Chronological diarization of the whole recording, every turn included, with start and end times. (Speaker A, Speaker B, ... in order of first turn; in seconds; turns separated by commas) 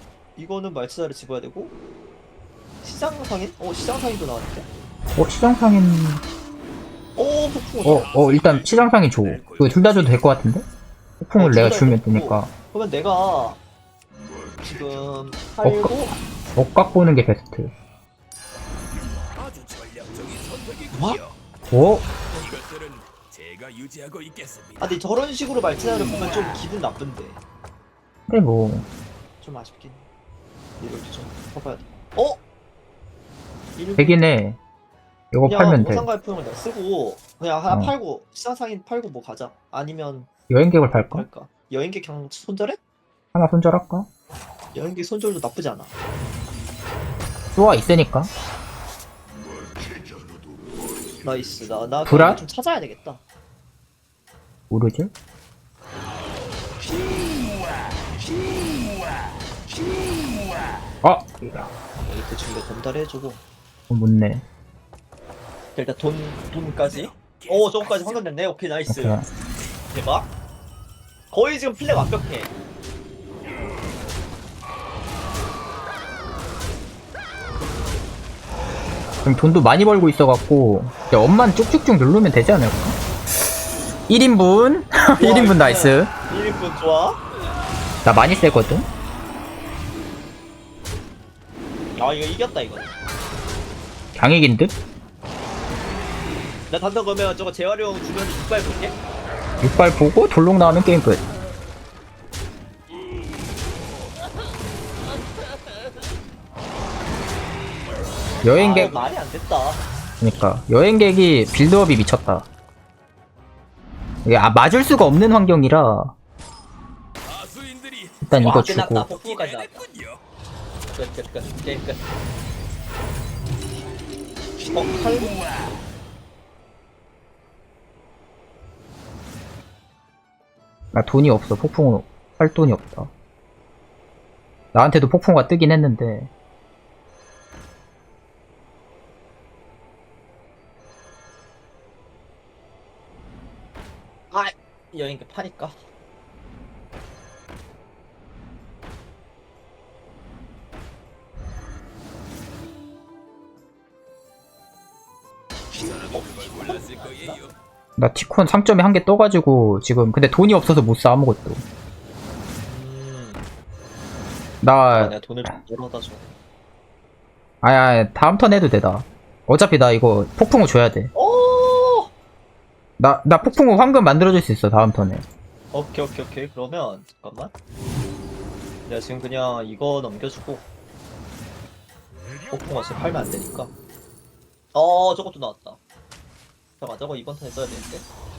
Speaker A: 0.3-1.7, Speaker A: 2.8-4.7, Speaker B: 5.2-6.2, Speaker A: 7.2-8.1, Speaker B: 7.8-10.7, Speaker C: 7.8-10.3, Speaker B: 11.2-12.5, Speaker A: 11.4-13.6, Speaker A: 14.6-16.1, Speaker B: 15.6-17.7, Speaker C: 19.3-21.4, Speaker A: 20.9-21.2, Speaker B: 21.7-22.1, Speaker C: 22.3-25.0, Speaker A: 24.8-27.4, Speaker B: 28.3-28.9, Speaker A: 29.4-30.0, Speaker A: 30.8-32.4, Speaker A: 33.7-34.2, Speaker B: 34.0-34.6, Speaker B: 35.3-36.1, Speaker A: 35.4-40.3, Speaker B: 40.5-41.2, Speaker A: 40.9-42.8, Speaker B: 43.3-44.1, Speaker A: 44.7-45.9, Speaker B: 47.5-48.3, Speaker A: 51.2-53.2, Speaker B: 52.0-52.4, Speaker B: 54.7-55.1, Speaker B: 61.0-61.7, Speaker A: 62.0-63.4, Speaker B: 63.9-64.4, Speaker A: 65.7-69.2, Speaker C: 66.8-68.2, Speaker B: 68.9-69.2, Speaker A: 69.9-70.3, Speaker A: 71.3-72.5, Speaker B: 79.2-83.0, Speaker B: 84.1-86.1, Speaker A: 85.2-87.2, Speaker B: 88.0-88.9, Speaker A: 92.0-92.9, Speaker B: 94.2-94.7, Speaker A: 96.7-99.0, Speaker B: 99.6-101.2, Speaker B: 108.4-109.0, Speaker A: 108.4-109.8, Speaker B: 110.2-112.5, Speaker B: 114.2-116.1, Speaker C: 117.2-120.2, Speaker B: 118.2-119.1, Speaker A: 118.4-119.8, Speaker A: 120.9-122.0, Speaker A: 124.7-125.4, Speaker B: 130.9-133.1, Speaker B: 134.7-136.3, Speaker A: 144.3-145.8, Speaker C: 155.8-157.5, Speaker A: 156.1-157.4, Speaker B: 158.0-161.6, Speaker A: 162.7-163.4, Speaker B: 164.6-165.5, Speaker A: 164.9-166.3, Speaker B: 167.6-171.1, Speaker A: 171.1-172.1, Speaker B: 173.0-175.2, Speaker A: 175.7-177.5, Speaker A: 178.8-180.6, Speaker A: 182.5-183.7, Speaker A: 184.7-185.8, Speaker A: 186.8-188.0